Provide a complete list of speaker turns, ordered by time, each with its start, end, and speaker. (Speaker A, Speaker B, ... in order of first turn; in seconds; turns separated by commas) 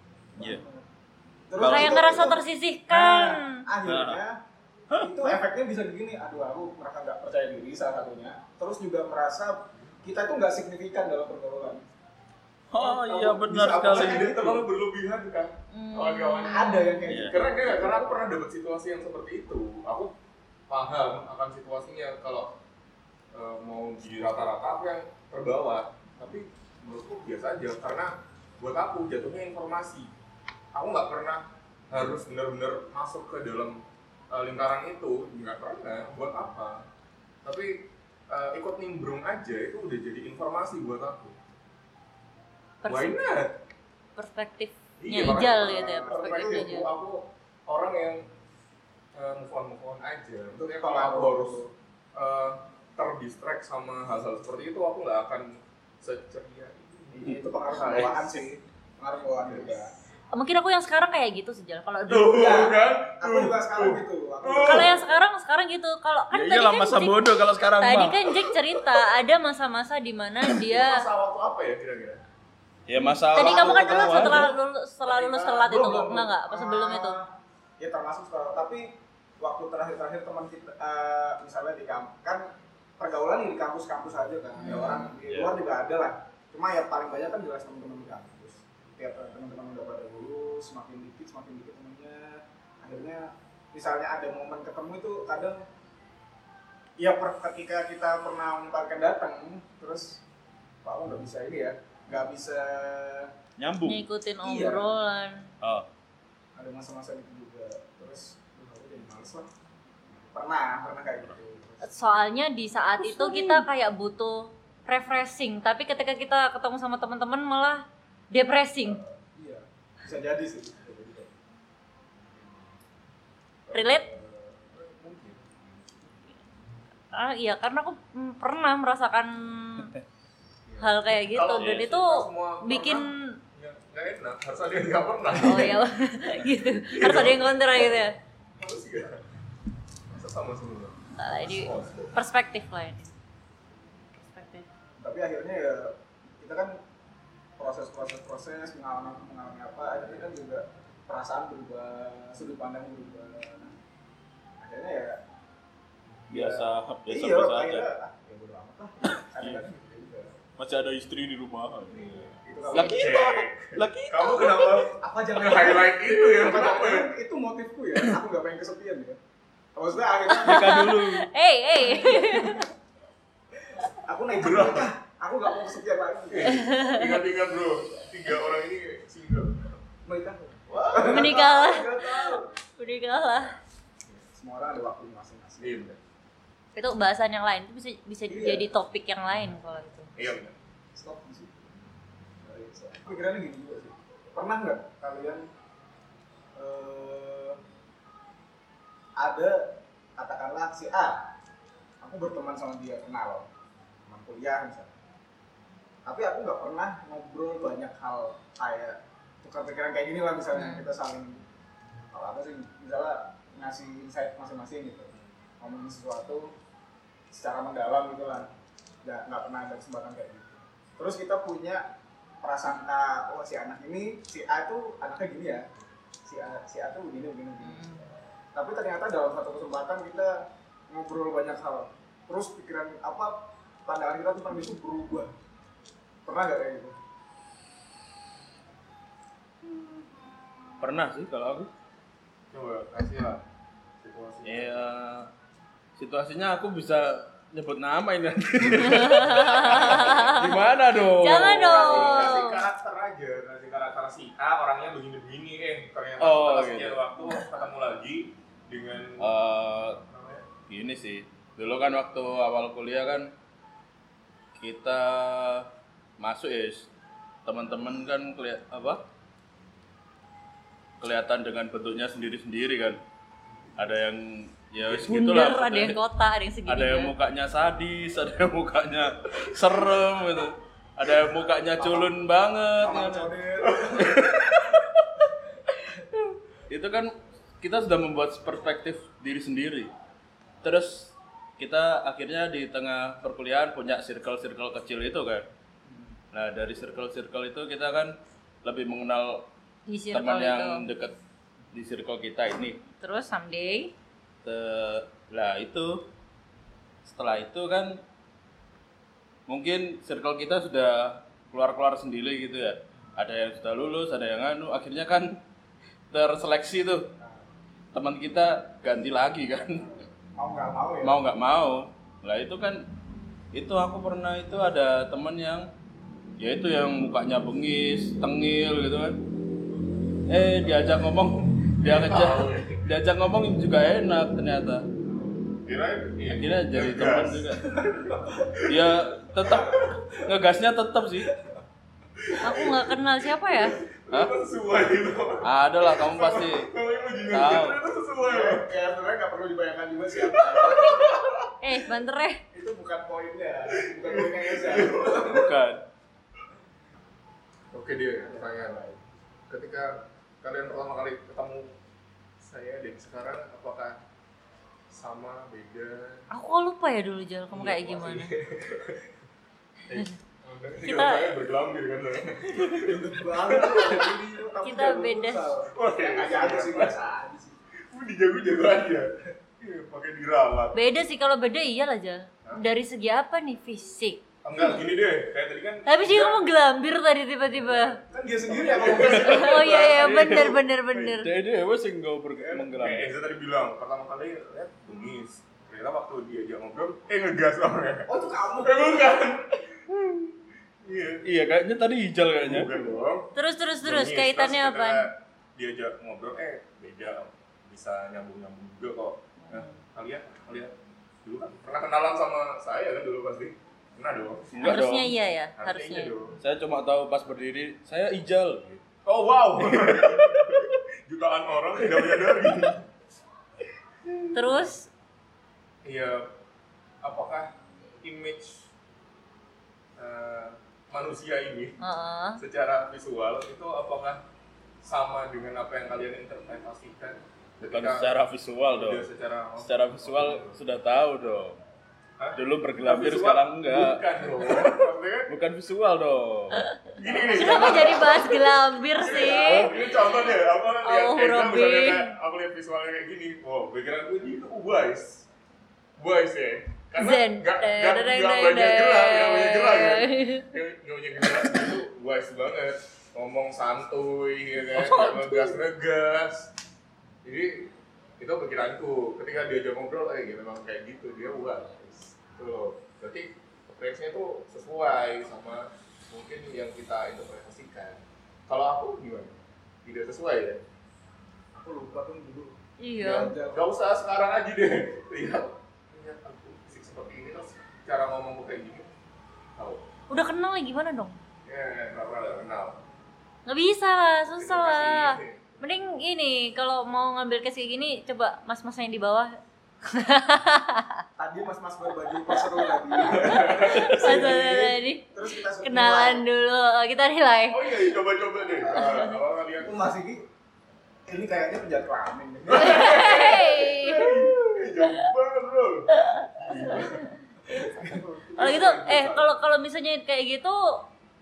Speaker A: 0.3-0.8, Speaker A: 1.5-4.4, Speaker B: 1.6-2.2, Speaker C: 1.6-3.6, Speaker B: 3.9-4.2, Speaker B: 4.9-5.4, Speaker A: 4.9-11.8, Speaker B: 12.7-14.3, Speaker A: 12.8-14.7, Speaker D: 12.9-20.1, Speaker C: 15.7-16.9, Speaker A: 16.5-18.2, Speaker B: 17.1-17.3, Speaker D: 20.7-22.6, Speaker D: 23.3-30.1, Speaker D: 30.7-36.9, Speaker D: 37.5-41.4, Speaker C: 42.8-43.2, Speaker D: 42.9-43.6, Speaker C: 44.2-46.9, Speaker D: 45.0-48.3, Speaker A: 45.7-46.6, Speaker D: 49.1-51.6, Speaker A: 50.7-51.7, Speaker D: 52.1-58.5, Speaker A: 57.1-59.9, Speaker D: 59.4-59.8, Speaker C: 60.3-62.7, Speaker D: 62.1-65.0, Speaker A: 62.3-65.2, Speaker C: 64.6-71.1, Speaker B: 66.3-68.4, Speaker D: 70.6-72.2, Speaker B: 72.9-74.5, Speaker A: 73.3-74.5, Speaker C: 73.3-77.2, Speaker A: 75.0-77.3, Speaker D: 75.7-76.0, Speaker A: 77.8-82.5, Speaker A: 83.0-95.6, Speaker C: 84.6-85.1, Speaker B: 85.3-85.5, Speaker A: 97.0-100.2, Speaker A: 100.8-103.3, Speaker B: 103.6-104.0, Speaker C: 103.9-105.5, Speaker A: 104.4-105.0, Speaker B: 105.6-105.9, Speaker A: 106.6-109.5, Speaker A: 110.2-111.9, Speaker C: 111.8-119.0, Speaker B: 113.0-113.7, Speaker A: 118.8-121.4, Speaker A: 123.7-124.5, Speaker C: 123.7-124.1, Speaker D: 124.7-125.5, Speaker C: 127.1-129.9, Speaker D: 130.7-135.8, Speaker C: 130.8-133.4, Speaker B: 131.6-131.9, Speaker C: 135.4-138.2, Speaker D: 136.8-137.9, Speaker D: 138.6-139.2, Speaker D: 140.1-142.1, Speaker C: 141.2-143.1, Speaker C: 144.2-144.7, Speaker A: 145.0-146.8, Speaker A: 147.6-153.8, Speaker A: 154.6-155.2, Speaker B: 156.3-157.9, Speaker A: 156.3-160.4, Speaker B: 159.4-159.7, Speaker B: 160.6-164.9, Speaker A: 162.3-163.2, Speaker D: 162.7-167.1, Speaker A: 164.9-169.2, Speaker A: 169.8-170.9, Speaker C: 170.3-172.7, Speaker B: 170.4-171.3, Speaker A: 171.9-172.6, Speaker A: 173.7-176.7, Speaker D: 174.3-174.9, Speaker D: 176.3-179.8, Speaker C: 176.5-177.2, Speaker A: 180.1-182.5, Speaker D: 180.7-181.5, Speaker C: 181.1-183.6, Speaker A: 184.3-185.9, Speaker D: 185.6-186.0, Speaker C: 186.8-190.1, Speaker A: 188.3-188.7, Speaker D: 190.2-190.6, Speaker A: 190.9-191.5, Speaker A: 192.4-195.4, Speaker A: 196.6-197.6, Speaker A: 199.2-201.3, Speaker A: 202.0-203.5, Speaker A: 204.1-205.0, Speaker A: 206.1-211.4, Speaker C: 210.6-210.9, Speaker A: 212.1-216.5, Speaker A: 217.3-218.5, Speaker A: 219.0-221.8, Speaker A: 222.4-225.7, Speaker A: 226.2-227.9, Speaker C: 227.6-228.0, Speaker A: 228.6-235.3, Speaker A: 236.3-236.9, Speaker B: 240.8-241.7, Speaker D: 242.5-243.4, Speaker D: 244.0-244.8, Speaker B: 244.4-245.3, Speaker B: 246.0-252.1, Speaker C: 248.9-252.7, Speaker D: 249.3-250.3, Speaker D: 251.4-259.3, Speaker A: 251.8-252.4, Speaker B: 256.2-257.0, Speaker B: 259.2-260.0, Speaker D: 260.1-260.5, Speaker B: 260.7-263.3, Speaker B: 264.6-265.7, Speaker B: 266.2-266.9, Speaker B: 267.4-269.0, Speaker B: 271.0-273.0, Speaker B: 273.8-276.0, Speaker C: 274.9-277.1, Speaker B: 276.7-283.3, Speaker A: 281.8-282.1, Speaker A: 282.8-284.3, Speaker D: 283.8-284.3, Speaker B: 284.0-284.9, Speaker B: 286.7-289.9, Speaker B: 290.6-295.5, Speaker A: 295.9-296.1, Speaker B: 296.3-299.5, Speaker C: 299.9-300.8, Speaker B: 300.1-301.2, Speaker B: 301.7-302.8, Speaker C: 302.9-303.9, Speaker B: 304.4-306.1, Speaker B: 307.1-308.0, Speaker B: 309.5-315.4, Speaker B: 316.1-317.1, Speaker A: 317.2-317.5, Speaker B: 317.9-319.9, Speaker A: 319.8-321.2, Speaker B: 321.0-322.9, Speaker B: 323.5-325.7, Speaker B: 326.4-329.2, Speaker B: 330.3-334.9, Speaker D: 331.8-332.9, Speaker D: 335.6-338.9, Speaker B: 336.3-337.7, Speaker A: 337.8-338.5, Speaker B: 338.7-341.3, Speaker D: 339.4-340.0, Speaker A: 339.5-339.9, Speaker D: 342.2-342.9, Speaker C: 342.4-343.8, Speaker D: 343.5-348.7, Speaker B: 344.1-344.4, Speaker B: 345.4-346.7, Speaker B: 347.3-347.8, Speaker A: 348.2-351.1, Speaker D: 350.1-351.5, Speaker C: 351.6-352.4, Speaker A: 352.5-355.6, Speaker D: 354.0-355.4, Speaker B: 355.2-355.8, Speaker D: 357.7-358.9, Speaker A: 358.2-359.0, Speaker D: 359.5-361.7, Speaker D: 362.4-364.0, Speaker D: 364.9-366.2, Speaker C: 366.3-368.3, Speaker D: 367.5-369.1, Speaker D: 369.9-374.2, Speaker C: 370.8-371.3, Speaker A: 372.7-377.6, Speaker C: 374.6-375.5, Speaker D: 375.7-376.9, Speaker D: 377.9-380.8, Speaker C: 380.7-384.8, Speaker D: 384.4-386.5, Speaker C: 385.9-388.0, Speaker A: 388.0-389.9, Speaker D: 388.5-391.2, Speaker C: 389.2-391.3, Speaker B: 390.2-390.5, Speaker B: 391.0-393.1, Speaker A: 392.4-392.6, Speaker D: 392.7-398.1, Speaker A: 398.1-399.2, Speaker D: 398.6-399.7, Speaker B: 399.9-400.2, Speaker D: 400.8-401.3, Speaker B: 401.2-402.7, Speaker D: 402.4-403.3, Speaker C: 403.4-405.1, Speaker D: 403.8-414.6, Speaker C: 409.4-409.8, Speaker B: 414.5-415.1, Speaker C: 414.6-416.1, Speaker D: 415.6-416.4, Speaker B: 416.4-418.8, Speaker D: 419.1-422.9, Speaker B: 419.6-420.7, Speaker D: 424.2-424.6, Speaker C: 424.3-424.9, Speaker D: 425.9-426.3, Speaker D: 427.0-428.7, Speaker D: 430.0-431.8, Speaker C: 431.8-432.4, Speaker D: 432.4-434.2, Speaker D: 434.8-438.1, Speaker B: 437.7-439.1, Speaker D: 438.7-440.6, Speaker B: 439.6-441.6, Speaker D: 442.2-445.3, Speaker B: 442.4-446.7, Speaker C: 446.5-450.3, Speaker D: 447.0-455.3, Speaker C: 450.8-452.1, Speaker D: 456.0-466.5, Speaker C: 457.0-460.4, Speaker C: 464.8-465.6, Speaker D: 467.2-480.6, Speaker A: 481.6-483.6, Speaker C: 482.8-483.3, Speaker D: 483.1-488.9, Speaker D: 489.6-489.8, Speaker C: 490.1-491.2, Speaker D: 491.4-492.8, Speaker C: 493.5-501.0, Speaker D: 494.4-495.6, Speaker A: 501.2-506.2, Speaker C: 502.3-507.9, Speaker D: 503.0-504.4, Speaker D: 507.5-509.9, Speaker C: 508.7-509.2, Speaker A: 509.6-510.2, Speaker A: 511.1-513.8, Speaker D: 512.5-519.2, Speaker C: 512.5-515.1, Speaker C: 515.9-517.6, Speaker A: 517.5-518.8, Speaker C: 518.4-520.8